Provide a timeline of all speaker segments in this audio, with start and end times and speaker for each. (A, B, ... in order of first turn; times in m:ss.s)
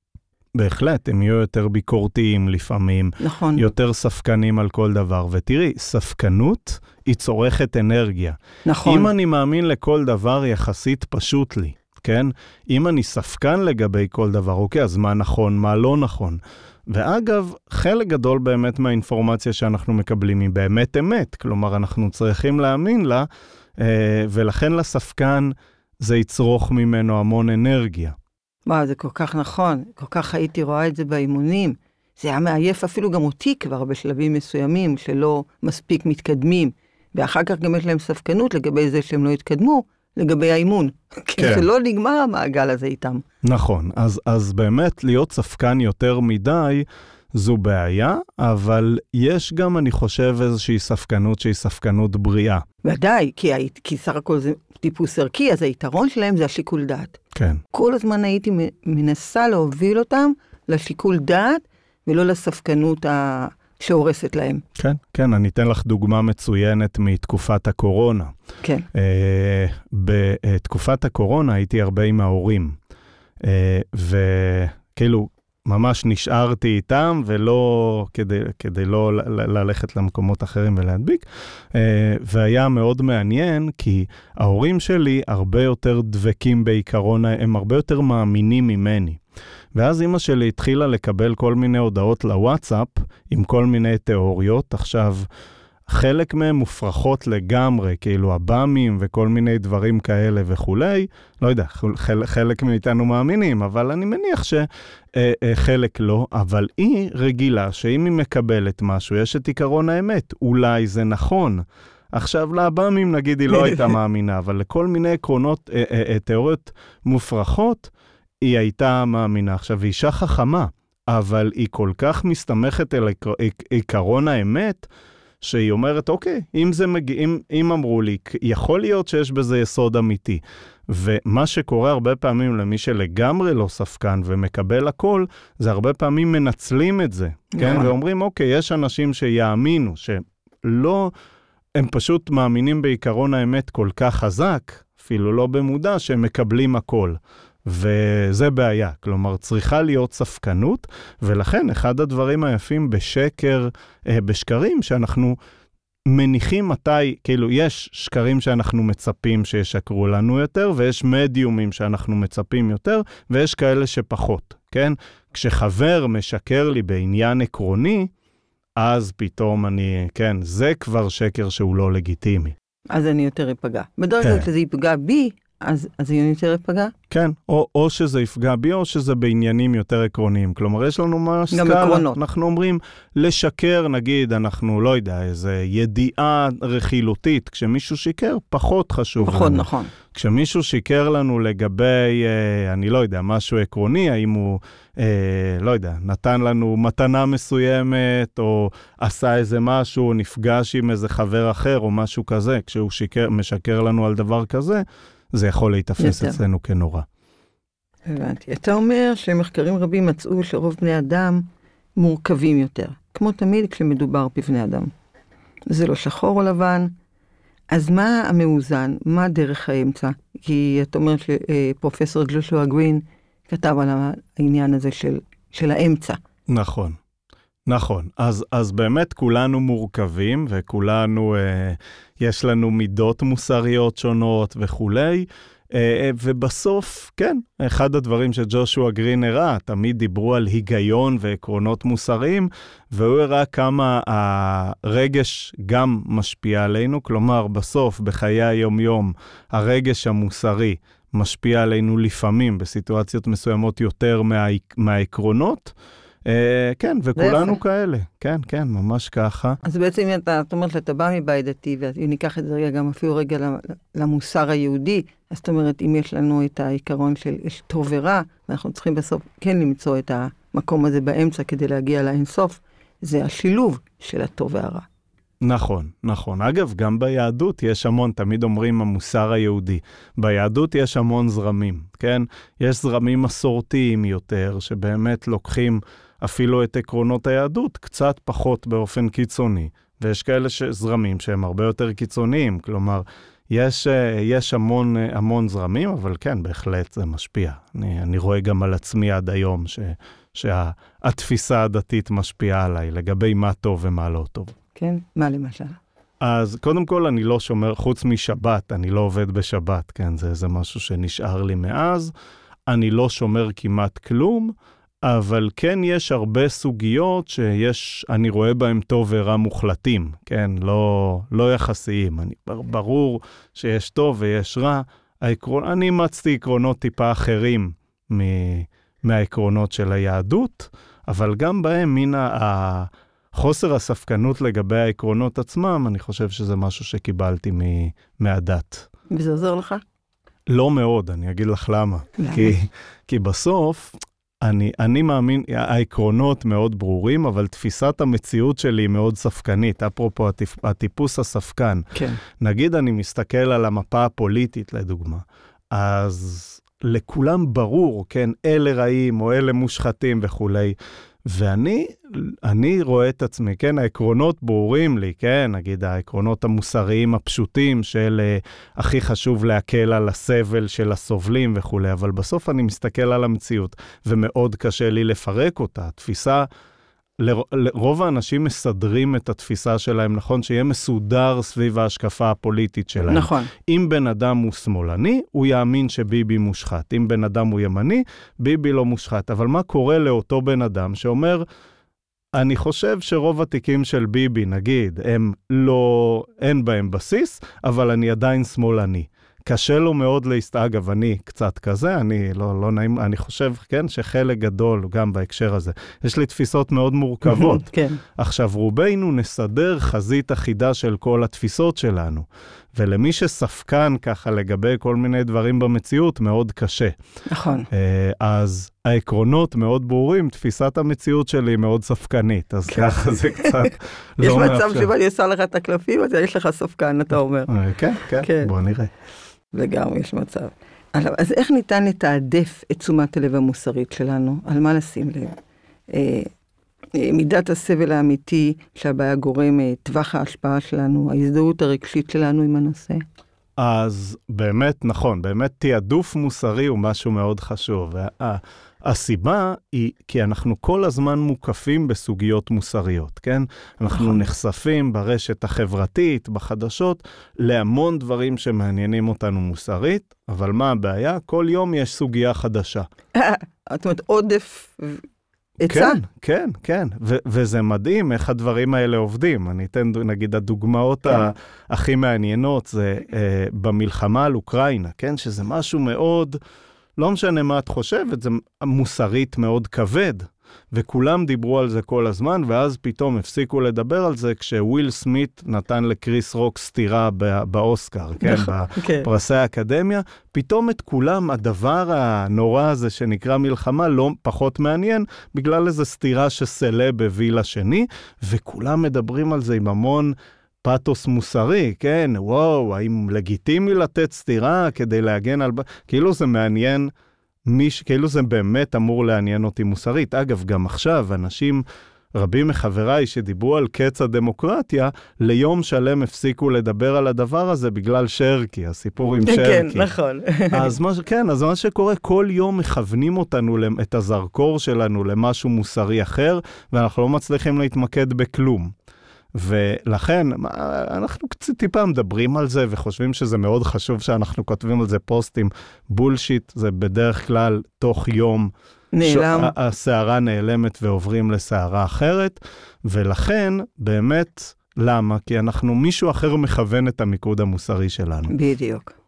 0:00.5-0:28.2 A
0:03.2-0:03.6 B
0:08.6-0:09.1 B
0:28.6-0:43.2 B
0:41.4-0:41.6 A
0:43.4-0:52.6 A
0:52.8-0:57.2 B
0:57.3-0:57.6 A
0:57.7-1:04.6 B
1:04.8-1:08.3 A
1:08.9-1:12.8 A
1:13.4-1:29.2 A
1:29.7-1:35.3 A
1:35.9-1:57.9 A
1:58.4-2:04.9 A
2:05.4-2:21.1 A
2:17.5-2:17.9 B
2:21.7-2:35.4 A
2:36.1-2:48.1 A
2:48.8-2:52.5 A
2:52.9-2:56.9 B
2:57.1-3:27.0 A
3:01.5-3:02.2 B
3:09.2-3:09.9 B
3:26.0-3:26.4 B
3:28.1-3:31.4 B
3:32.0-3:34.9 B
3:35.7-3:36.9 B
3:37.7-3:46.2 B
3:46.5-3:47.0 A
3:47.6-4:15.7 A
4:16.2-4:19.6 A
4:17.2-4:17.6 B
4:19.6-4:34.8 B
4:35.4-5:04.5 A
5:04.7-5:05.8 B
5:06.2-5:12.1 A
5:12.7-5:38.9 A
5:39.1-5:39.8 B
5:40.5-6:16.5 A
5:42.2-5:42.5 B
5:51.9-5:52.2 B
6:17.2-6:31.4 A
6:23.1-6:23.5 B
6:32.3-6:56.9 A
6:47.3-6:48.0 B
6:57.3-6:57.7 B
6:57.7-7:04.9 A
7:02.7-7:07.5 B
7:07.5-7:08.9 A
7:08.0-7:08.5 B
7:09.5-7:15.4 B
7:15.9-7:16.3 B
7:16.9-7:23.0 B
7:23.6-7:42.8 A
7:43.1-7:45.0 B
7:45.6-7:46.0 B
7:45.7-7:56.4 A
7:57.0-8:26.9 A
8:08.2-8:09.1 B
8:27.4-8:39.9 A
8:39.2-8:40.7 B
8:40.5-8:48.7 A
8:49.3-9:08.3 A
8:58.9-8:59.5 B
9:08.3-9:08.9 B